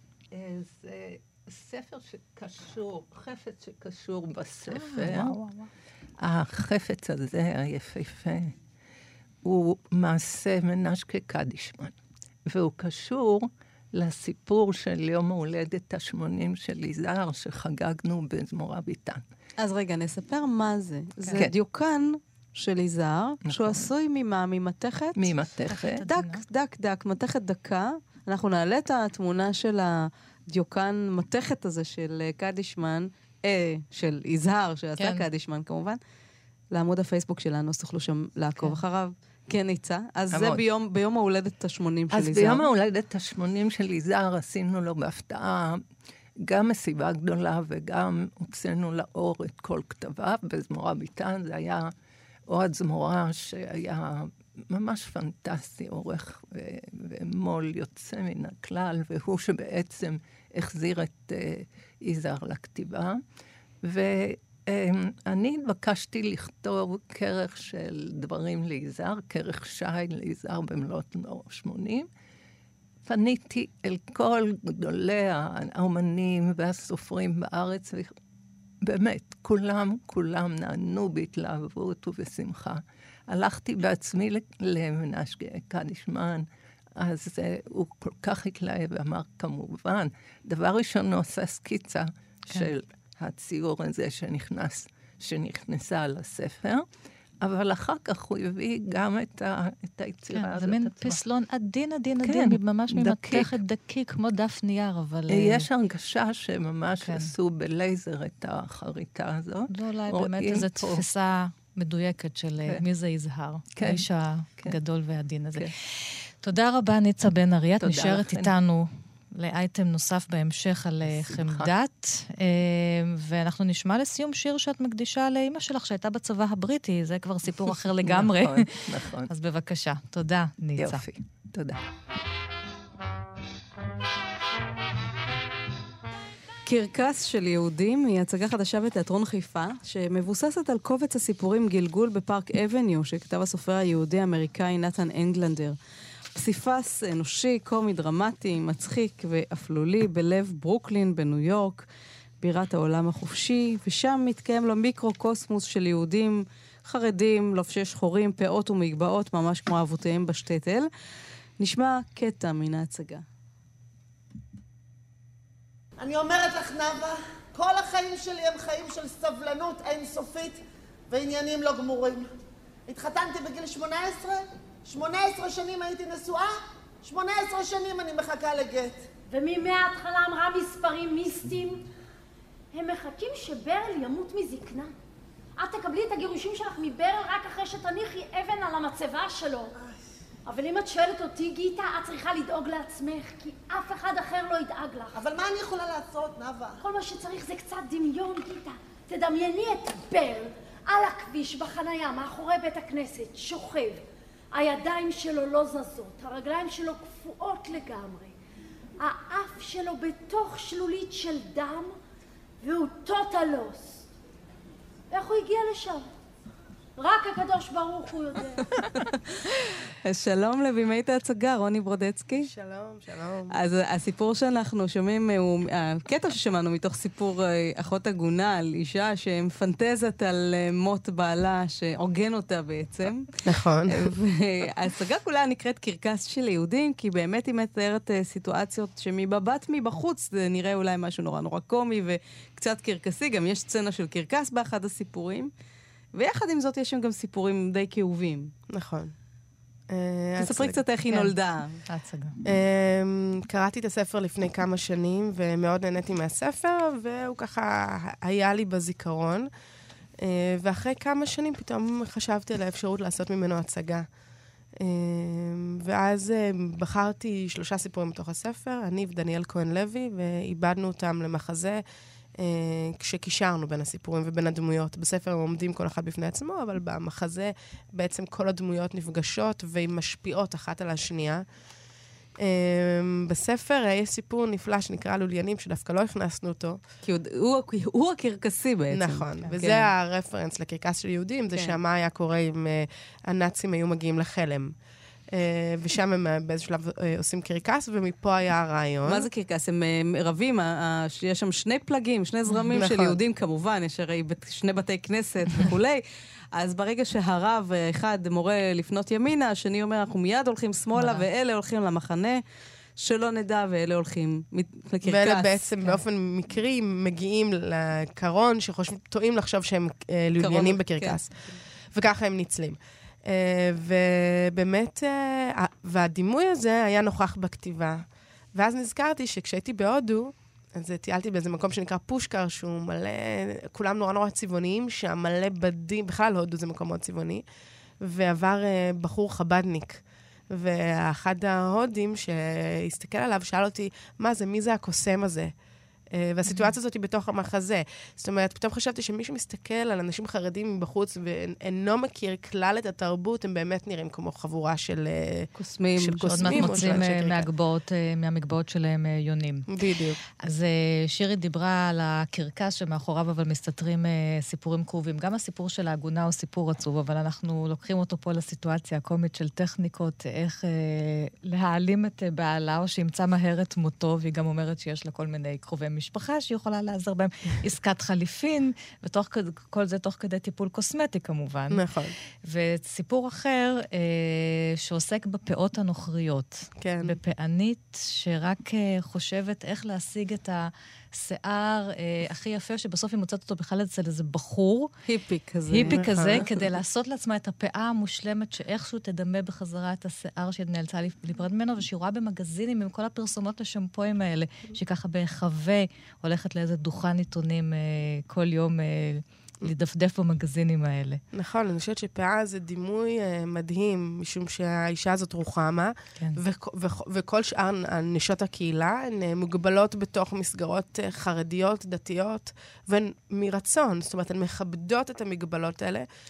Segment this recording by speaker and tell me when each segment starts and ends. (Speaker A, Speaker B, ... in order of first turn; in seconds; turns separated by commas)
Speaker A: 0.3-5.4, Speaker B: 4.7-5.7, Speaker A: 6.2-8.5, Speaker A: 9.4-19.2, Speaker C: 19.6-25.3, Speaker A: 23.4-23.9, Speaker A: 25.1-26.0, Speaker B: 25.7-26.4, Speaker C: 26.0-36.0, Speaker B: 35.0-35.2, Speaker C: 36.7-42.7, Speaker A: 40.3-40.6, Speaker A: 42.1-45.8, Speaker A: 46.4-51.9, Speaker A: 52.5-63.2, Speaker A: 63.8-72.1, Speaker A: 73.0-78.1, Speaker A: 78.8-96.8, Speaker A: 97.4-101.2, Speaker B: 100.3-105.7, Speaker A: 102.2-103.6, Speaker A: 105.3-111.0, Speaker B: 107.0-107.3, Speaker B: 109.7-115.7, Speaker A: 113.8-114.0, Speaker B: 116.4-131.0, Speaker A: 117.8-118.5, Speaker A: 121.0-121.7, Speaker A: 127.7-129.3, Speaker A: 130.8-131.8, Speaker C: 136.7-145.8, Speaker C: 146.3-151.8, Speaker C: 152.4-160.9, Speaker C: 161.6-163.2, Speaker D: 166.0-172.3, Speaker D: 172.9-179.1, Speaker E: 179.3-181.8, Speaker E: 182.7-184.9, Speaker E: 185.6-189.7, Speaker E: 190.4-195.2, Speaker D: 195.1-196.8, Speaker E: 196.8-208.3, Speaker E: 209.0-211.9, Speaker E: 212.6-214.0, Speaker E: 215.1-216.1, Speaker E: 217.0-219.0, Speaker C: 218.9-222.5, Speaker F: 222.4-223.6, Speaker C: 223.5-233.3, Speaker F: 233.4-234.1, Speaker C: 233.9-245.5, Speaker C: 246.1-248.5, Speaker F: 248.7-249.1, Speaker F: 249.9-250.8, Speaker C: 250.4-251.8, Speaker B: 251.1-251.3, Speaker B: 251.9-252.3, Speaker F: 252.4-259.5, Speaker F: 260.2-264.1, Speaker F: 264.8-271.8, Speaker F: 272.3-281.4, Speaker F: 282.4-286.8, Speaker C: 287.0-289.9, Speaker F: 288.9-294.8, Speaker F: 295.3-299.3, Speaker C: 299.1-306.0, Speaker F: 302.7-303.2, Speaker C: 306.5-312.4, Speaker B: 310.9-311.2, Speaker C: 313.0-315.6, Speaker F: 315.0-337.4, Speaker C: 320.4-321.2, Speaker F: 338.0-345.5, Speaker F: 346.1-357.5, Speaker C: 355.6-357.1, Speaker B: 356.3-359.7, Speaker F: 359.7-360.2, Speaker B: 360.4-381.8, Speaker F: 381.7-382.1, Speaker B: 382.4-394.9, Speaker F: 386.8-387.2, Speaker C: 395.1-396.4, Speaker B: 395.7-411.2, Speaker F: 395.8-396.7, Speaker F: 411.3-426.1